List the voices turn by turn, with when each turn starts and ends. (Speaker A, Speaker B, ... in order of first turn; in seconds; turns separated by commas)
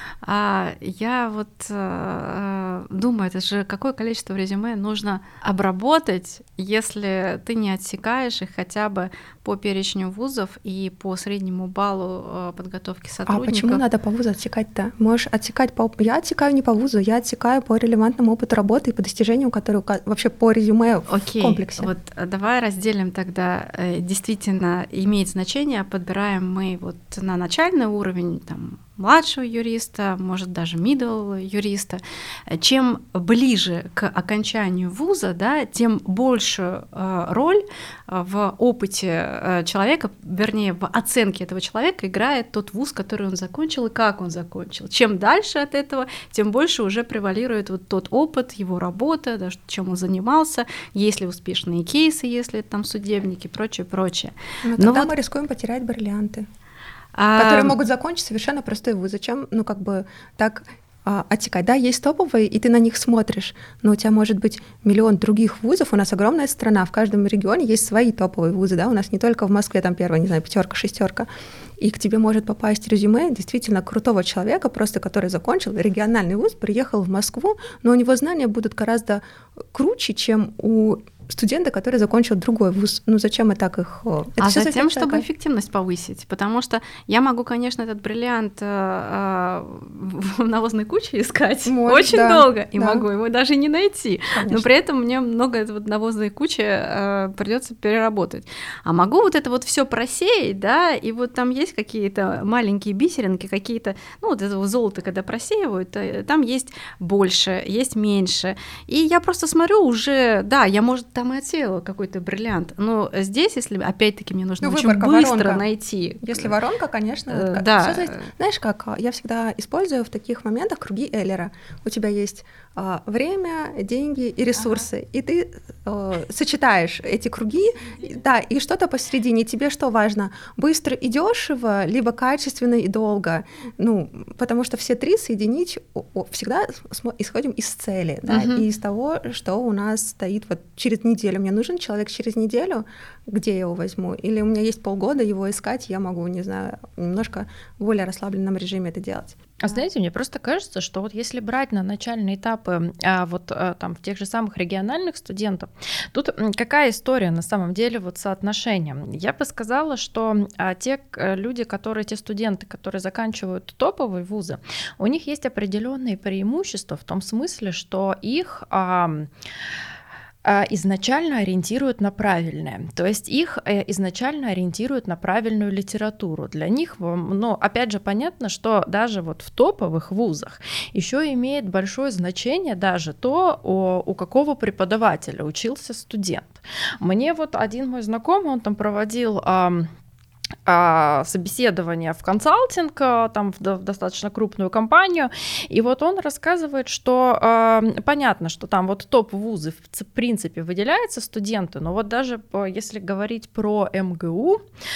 Speaker A: 0.2-13.8, Speaker B: 13.3-21.9, Speaker A: 21.1-55.1, Speaker B: 54.6-56.5, Speaker A: 57.1-57.7, Speaker B: 57.4-85.2, Speaker A: 84.4-116.6, Speaker B: 91.7-93.0, Speaker B: 94.3-94.7, Speaker B: 114.6-115.6, Speaker B: 116.2-149.3, Speaker A: 117.3-118.3, Speaker A: 138.3-138.6, Speaker C: 149.6-169.3, Speaker C: 170.4-189.9, Speaker C: 190.7-204.6